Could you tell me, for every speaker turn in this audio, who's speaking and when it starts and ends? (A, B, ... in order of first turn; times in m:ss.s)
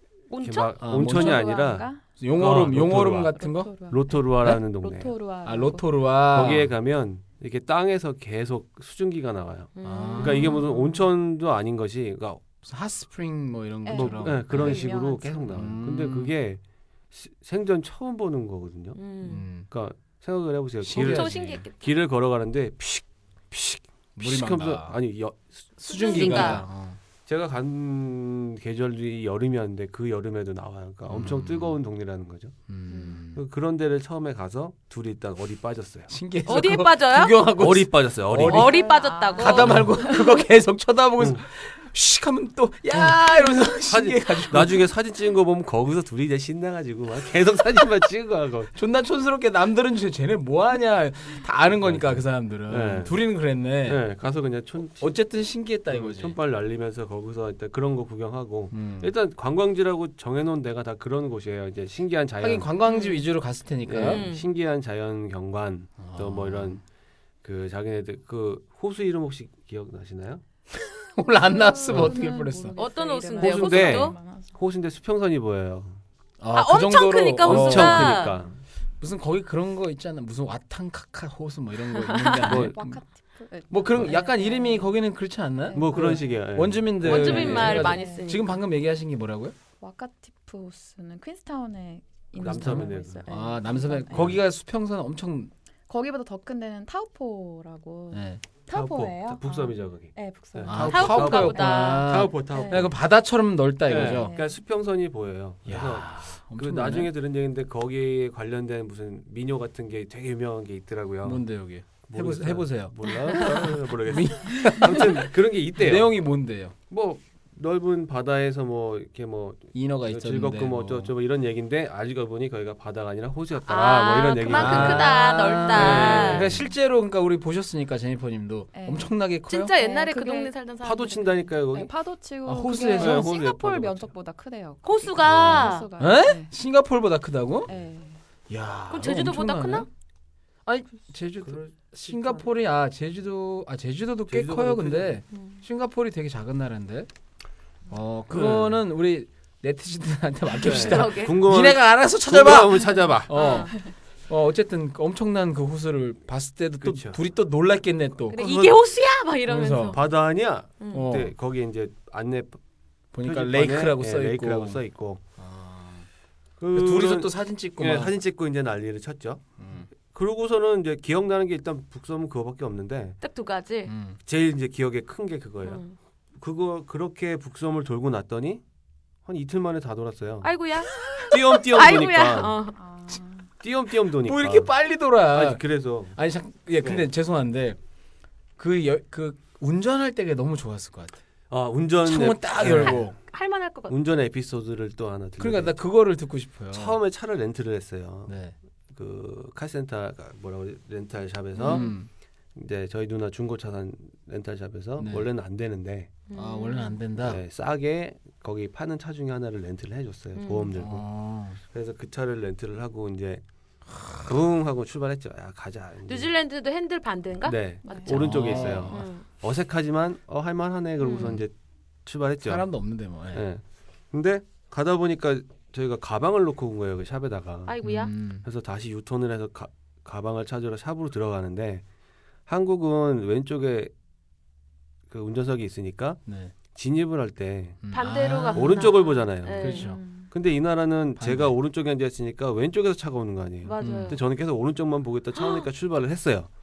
0:00.3-0:00.7 A
0:00.4-0:03.3 B
0:00.8-0:01.5 C
0:00.9-0:02.0 D
0:02.2-0:03.7 C
0:03.2-0:06.0 D
0:03.9-0:05.1 B
0:05.4-0:06.7 C
0:06.3-0:12.4 B
0:09.8-0:10.8 A
0:09.8-0:10.6 C
0:12.6-0:14.8 C
0:13.8-0:15.6 D
0:13.9-0:19.0 B
0:15.5-0:16.3 C
0:19.0-0:19.4 A
0:19.2-0:19.7 C
0:19.7-0:26.6 B
0:20.8-0:21.6 C
0:20.9-0:21.9 A
0:24.2-0:25.0 C
0:25.8-0:27.0 C
0:25.9-0:26.6 A
0:27.3-0:32.5 B
0:31.1-0:31.8 C
0:32.7-0:33.4 C
0:33.3-0:36.1 B
0:36.1-0:38.8 C
0:36.4-0:37.4 A
0:37.6-0:38.8 B
0:38.4-0:39.9 A
0:38.6-0:40.3 D
0:39.4-0:44.8 C
0:39.6-0:39.9 B
0:41.2-0:41.4 B
0:43.8-0:48.7 B
0:48.7-0:54.0 C
0:51.8-0:53.2 B
0:53.8-0:55.2 B
0:55.0-0:56.4 C
0:55.9-1:02.7 B
0:58.7-0:59.1 C
1:02.4-1:04.2 C
1:02.8-1:03.2 A
1:03.8-1:06.8 B
1:04.0-1:04.4 A
1:06.0-1:06.8 C
1:07.4-1:10.4 B
1:10.7-1:12.8 C
1:11.4-1:14.5 D
1:12.8-1:14.2 A
1:13.4-1:16.0 B
1:16.4-1:18.3 C
1:16.5-1:18.4 A
1:17.4-1:18.5 B
1:19.0-1:23.0 C
1:21.9-1:22.6 A
1:22.4-1:22.8 B
1:22.5-1:24.9 D
1:23.7-1:29.5 C
1:25.6-1:26.4 D
1:25.7-1:27.9 B
1:27.0-1:28.6 A
1:27.4-1:28.3 D
1:29.8-1:34.3 D
1:32.4-1:33.2 B
1:32.6-1:35.5 C
1:34.1-1:34.4 B
1:35.9-1:41.8 D
1:38.1-1:38.4 C
1:38.7-1:42.9 B
1:40.6-1:44.3 C
1:40.8-1:42.3 A
1:42.3-1:42.9 D
1:43.9-1:51.4 B
1:43.9-1:44.5 D
1:45.6-1:47.1 C
1:51.2-1:56.7 C
1:52.1-1:56.1 B
1:56.9-2:06.6 B
1:59.7-2:01.1 C
2:03.7-2:06.5 A
2:04.5-2:09.7 C
2:08.7-2:09.1 D
2:09.5-2:11.3 A
2:09.8-2:10.5 D
2:10.8-2:11.9 B
2:11.7-2:16.5 D
2:12.4-2:13.3 C
2:13.0-2:14.1 B
2:14.8-2:15.9 A
2:15.2-2:15.6 B
2:16.0-2:17.7 C
2:17.7-2:18.2 D
2:18.5-2:19.9 C
2:18.9-2:19.9 A
2:20.6-2:27.1 C
2:21.4-2:22.4 B
2:24.3-2:25.2 B
2:25.3-2:25.6 A
2:27.9-2:38.4 C
2:28.3-2:28.8 B
2:30.6-2:33.3 B
2:30.6-2:31.4 A
2:33.3-2:33.7 A
2:36.8-2:37.2 B
2:38.3-2:40.0 A
2:38.3-2:38.8 B
2:39.5-2:40.0 C
2:39.9-2:42.6 B
2:40.8-2:41.1 A
2:40.9-2:41.3 C
2:43.1-2:44.8 C
2:43.2-2:45.2 B
2:45.4-2:46.1 C
2:46.6-2:49.4 B
2:46.7-2:48.1 C
2:49.6-2:49.9 C
2:50.0-2:53.2 B
2:53.2-2:53.9 A
2:53.8-2:54.2 C
2:54.2-2:55.8 B
2:55.6-2:55.9 A
2:56.4-2:58.6 B
2:59.2-3:00.5 B
3:00.4-3:02.8 A
3:01.0-3:02.6 B
3:02.7-3:03.5 D
3:03.6-3:04.7 B
3:04.2-3:07.8 C
3:05.3-3:06.2 B
3:06.8-3:07.1 B
3:08.6-3:11.2 C
3:11.5-3:13.1 B
3:12.0-3:13.2 C
3:13.2-3:14.0 A
3:13.9-3:15.8 B
3:15.4-3:17.0 C
3:16.7-3:18.3 B
3:18.3-3:18.5 C
3:18.9-3:21.9 B
3:21.6-3:21.9 A
3:21.6-3:22.1 C
3:22.5-3:26.1 B
3:25.0-3:25.3 C
3:26.3-3:27.0 A
3:26.3-3:27.4 C
3:27.2-3:31.0 B
3:30.4-3:30.7 A
3:30.8-3:31.6 C
3:31.6-3:33.4 B
3:34.2-3:36.3 B
3:36.1-3:39.2 A
3:37.4-3:41.5 B
3:37.8-3:38.1 D
3:38.1-3:39.1 C
3:41.0-3:41.4 A
3:42.0-3:42.6 B
3:42.4-3:43.4 C
3:43.3-3:47.8 B
3:47.7-3:48.1 A
3:47.8-3:48.4 C
3:48.3-3:51.8 B
3:52.5-3:53.9 B
3:55.1-3:56.2 B
3:56.2-3:56.5 C
3:56.7-3:57.8 B
3:57.8-3:58.9 C
3:57.9-3:59.9 A
3:58.5-4:06.5 B
3:59.6-4:00.0 C
3:59.8-4:00.3 D
4:01.2-4:01.5 C
4:03.6-4:04.2 A
4:03.8-4:04.2 C
4:05.3-4:05.6 A